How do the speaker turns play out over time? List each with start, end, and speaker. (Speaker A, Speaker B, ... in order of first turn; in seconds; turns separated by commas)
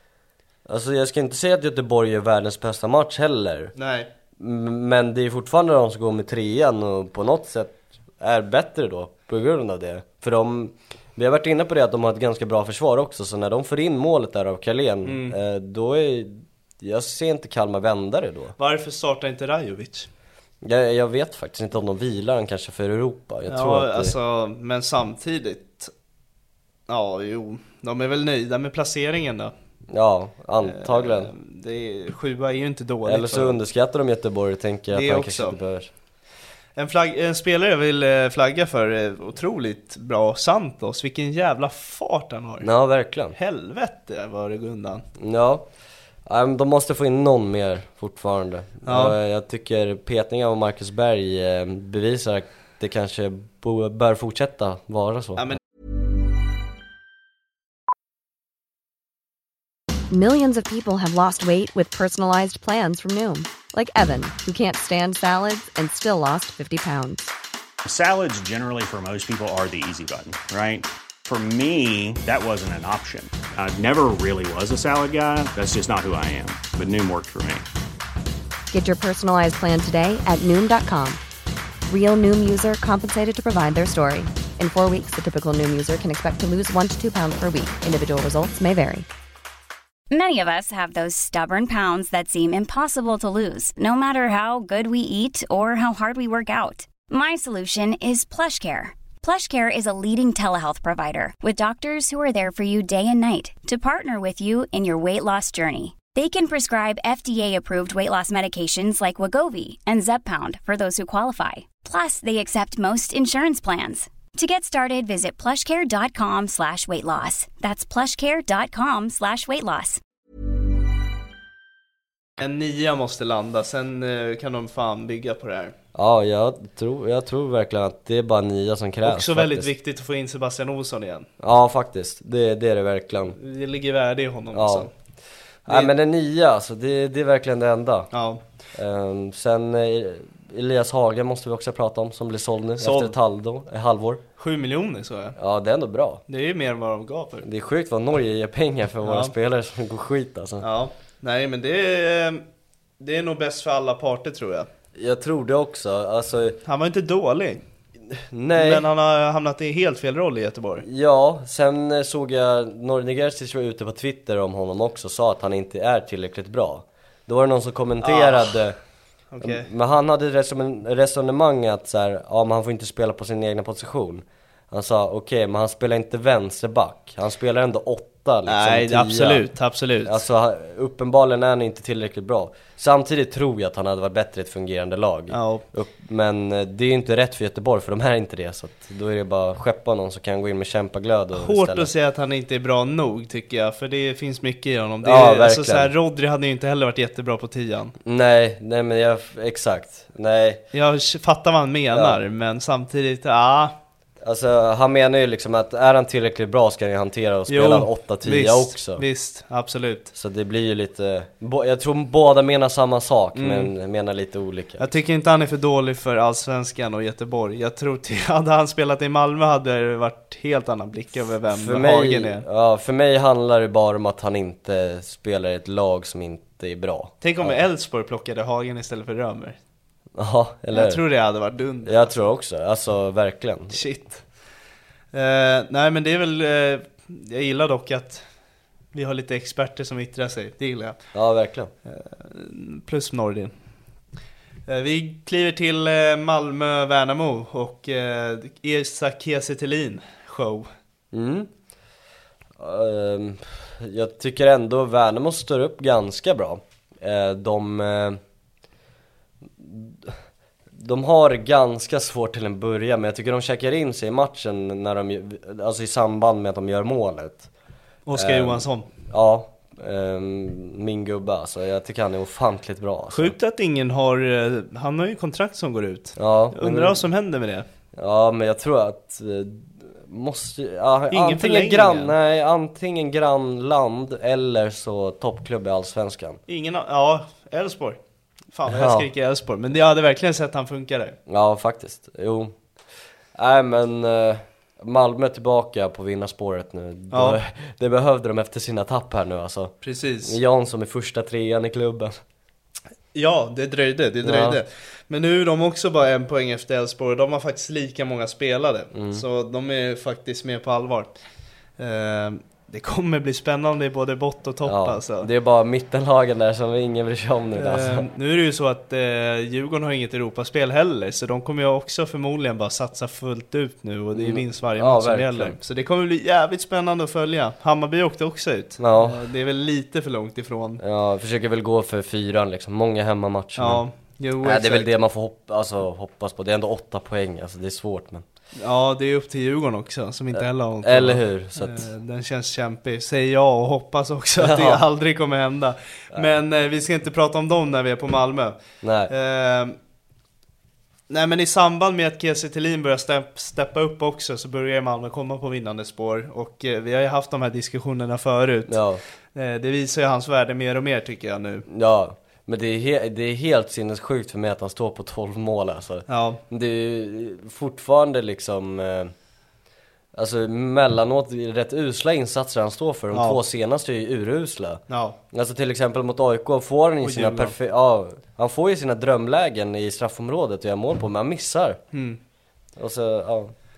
Speaker A: 0.7-3.7, Speaker B: 3.8-4.1, Speaker A: 4.4-18.6, Speaker B: 15.0-15.4, Speaker B: 18.6-20.1, Speaker A: 20.6-24.1, Speaker B: 23.5-25.9, Speaker B: 26.9-29.5, Speaker A: 29.9-31.3, Speaker B: 30.6-33.6, Speaker A: 33.0-35.9, Speaker B: 34.9-35.6, Speaker B: 36.8-42.7, Speaker A: 42.6-43.4, Speaker B: 43.3-45.0, Speaker A: 45.2-45.7, Speaker A: 46.3-55.6, Speaker B: 48.9-49.2, Speaker C: 60.1-67.3, Speaker D: 67.8-77.7, Speaker C: 78.7-81.2, Speaker C: 81.9-89.1, Speaker E: 90.1-120.0, Speaker B: 122.4-125.8, Speaker A: 126.0-129.7, Speaker B: 129.0-131.3, Speaker A: 131.4-133.4, Speaker B: 133.3-134.9, Speaker A: 134.5-134.9, Speaker B: 135.7-135.9, Speaker A: 135.7-138.1, Speaker B: 138.1-138.4, Speaker A: 138.8-144.2, Speaker B: 142.8-143.2, Speaker B: 144.4-145.4, Speaker A: 145.4-146.2, Speaker B: 146.3-147.5, Speaker A: 147.4-150.7, Speaker B: 149.0-149.3, Speaker B: 150.6-152.4, Speaker B: 153.0-154.7, Speaker A: 154.9-156.6, Speaker B: 156.7-157.6, Speaker A: 158.1-158.9, Speaker B: 158.5-160.8, Speaker A: 160.8-168.8, Speaker B: 168.0-168.6, Speaker B: 169.3-169.7, Speaker A: 169.4-179.5, Speaker B: 178.5-180.2, Speaker A: 180.1-191.9, Speaker B: 185.3-185.7, Speaker B: 191.3-197.9, Speaker A: 195.0-195.9, Speaker A: 198.0-200.6, Speaker B: 200.7-203.8, Speaker A: 201.9-202.2, Speaker A: 204.2-209.0, Speaker B: 207.5-210.1, Speaker A: 210.1-214.9, Speaker B: 213.3-213.7, Speaker B: 214.8-222.5, Speaker A: 221.5-227.6, Speaker B: 227.2-229.6, Speaker A: 230.2-231.0, Speaker B: 230.7-232.1, Speaker A: 231.8-233.8, Speaker B: 233.7-234.2, Speaker B: 235.1-238.2, Speaker B: 238.9-241.0, Speaker A: 241.1-241.7, Speaker B: 241.9-243.5, Speaker B: 244.7-250.7, Speaker A: 251.1-251.5, Speaker A: 252.6-258.2, Speaker A: 259.6-260.2, Speaker A: 260.8-267.5, Speaker B: 268.1-268.9, Speaker A: 268.1-273.3, Speaker B: 273.1-277.7, Speaker A: 276.2-277.1, Speaker A: 278.0-286.4, Speaker B: 281.1-282.1, Speaker B: 286.5-288.0, Speaker B: 288.5-291.2, Speaker A: 288.7-289.1, Speaker A: 291.3-292.5, Speaker A: 293.4-302.1, Speaker B: 297.1-297.4, Speaker B: 299.8-300.4, Speaker B: 303.1-311.2, Speaker A: 304.2-304.6, Speaker A: 308.9-309.2, Speaker B: 311.8-315.3, Speaker A: 314.6-318.1, Speaker B: 317.6-330.8, Speaker A: 324.1-325.6, Speaker A: 328.8-329.2, Speaker A: 330.8-333.8, Speaker B: 333.6-334.9, Speaker A: 334.4-338.2, Speaker B: 338.6-348.6, Speaker A: 340.3-341.9, Speaker A: 344.4-344.8, Speaker A: 348.8-349.1, Speaker B: 349.1-349.8, Speaker B: 351.1-358.8, Speaker A: 358.7-359.0, Speaker B: 359.3-361.7, Speaker A: 361.7-369.1, Speaker B: 366.1-366.4, Speaker A: 370.1-381.8, Speaker B: 373.1-373.4, Speaker B: 374.9-375.2, Speaker B: 377.0-377.6, Speaker B: 381.9-382.2, Speaker A: 382.8-383.5